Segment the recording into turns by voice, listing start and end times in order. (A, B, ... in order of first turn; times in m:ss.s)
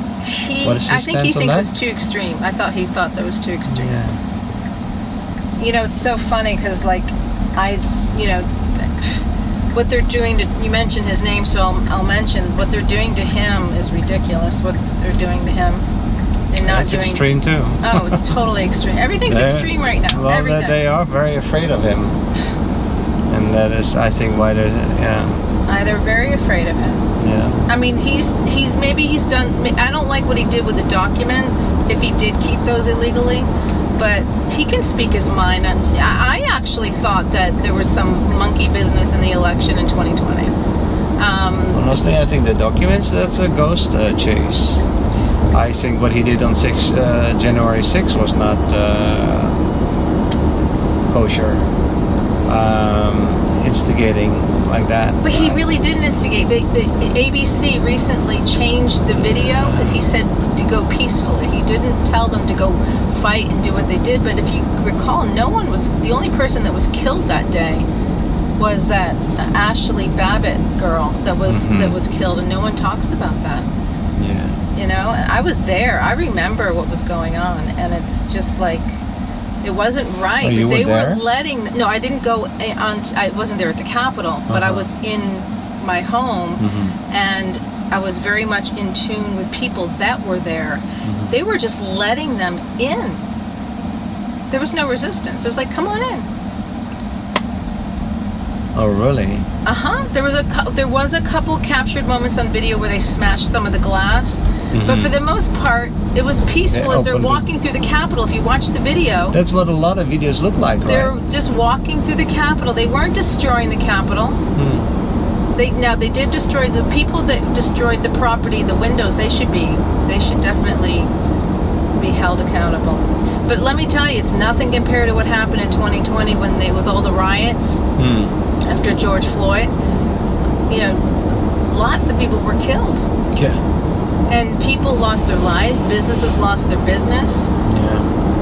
0:00.2-0:03.9 A
0:00.6-0:01.7 B
0:03.7-0:04.2 B
0:05.6-0:15.8 A
0:16.5-0:17.3 A
0:16.6-0:18.3 B
0:17.8-0:20.8 A
0:19.3-0:22.2 B
0:23.3-0:25.4 B
0:25.6-0:27.1 A
0:27.2-0:27.6 B
0:27.7-0:40.5 A
0:41.2-0:41.8 A
0:41.7-0:44.8 B
0:45.5-0:49.6 B
0:51.1-0:51.7 B
0:52.4-0:55.6 B
0:55.2-1:07.9 A
0:59.6-1:00.0 B
1:08.6-1:13.7 A
1:11.4-1:12.0 B
1:14.2-1:14.6 B
1:14.7-1:19.0 A
1:19.6-1:33.2 A
1:20.4-1:21.2 B
1:24.5-1:24.9 B
1:26.6-1:26.9 B
1:31.0-1:31.3 B
1:34.5-1:36.3 A
1:38.8-1:39.4 B
1:39.6-1:49.4 A
1:44.7-1:45.1 B
1:46.7-1:47.4 B
1:49.3-1:51.1 B
1:50.8-1:54.4 A
1:54.5-1:54.9 B
1:55.5-2:01.1 A
2:02.0-2:07.8 A
2:08.0-2:08.4 B
2:08.6-2:09.7 A
2:10.7-2:11.0 A
2:11.6-2:13.0 A
2:14.3-2:17.5 A
2:17.6-2:18.1 B